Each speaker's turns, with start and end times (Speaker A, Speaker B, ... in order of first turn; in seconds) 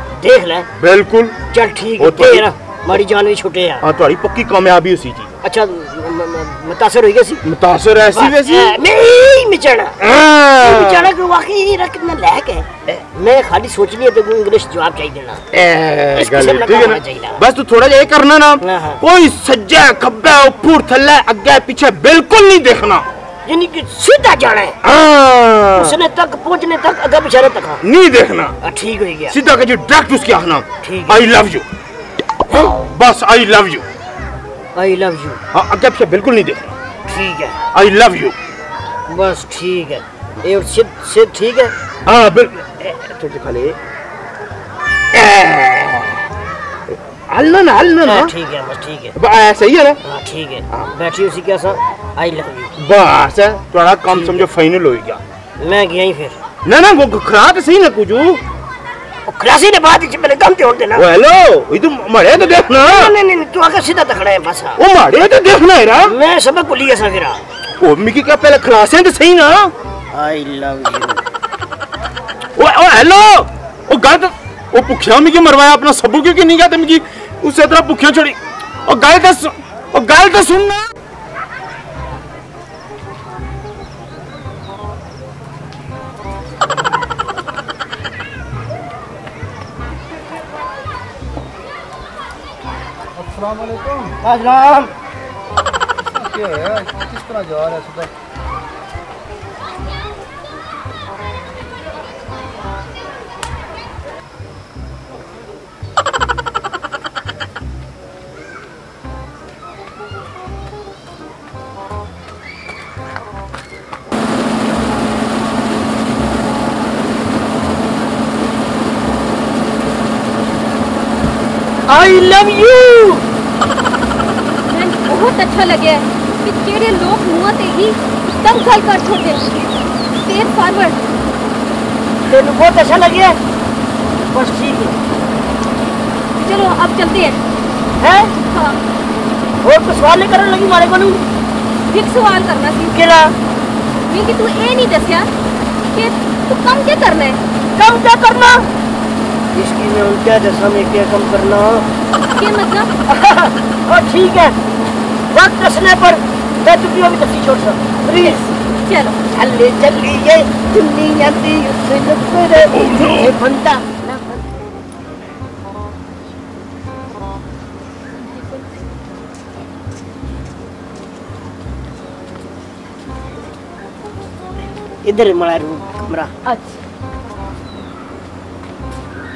Speaker A: 0.2-0.7, 1.5-3.9, 5.4-7.4, 8.1-10.0, 10.6-15.4, 16.1-17.4, 18.6-19.0, 23.5-24.8, 25.8-27.8, 28.6-29.4, 30.8-31.3, 34.8-35.4, 37.1-37.6, 39.1-41.7, 48.0-49.1, 50.0-52.7, 54.1-54.5, 55.6-56.4, 59.3-61.1, 62.5-64.8, 66.0-67.4, 70.1-71.2, 94.0-94.9, 121.9-123.2, 132.3-133.4, 134.3-135.0, 138.0-138.3, 139.6-141.3, 142.9-143.3, 147.8-148.7, 149.5-151.9, 153.1-154.6, 155.3-158.5, 159.3-164.0, 175.0-176.3
Speaker B: 0.8-1.4, 2.0-2.5, 3.8-5.3, 7.4-8.8, 10.0-11.1, 15.5-23.1, 24.8-26.0, 27.8-28.6, 29.3-31.7, 32.8-33.9, 35.5-36.7, 37.7-38.4, 42.0-43.8, 45.1-46.2, 46.9-48.3, 49.2-50.0, 52.8-55.2, 56.6-58.4, 61.0-63.1, 64.8-66.1, 67.8-69.7, 72.6-80.8
Speaker C: 93.5-93.9, 96.3-97.9
Speaker D: 124.7-129.6, 130.2-131.0, 136.4-137.4, 138.4-138.8, 141.9-142.9, 144.1-145.3, 145.9-147.4, 152.3-152.9, 158.1-159.2, 168.2-168.7, 176.5-176.8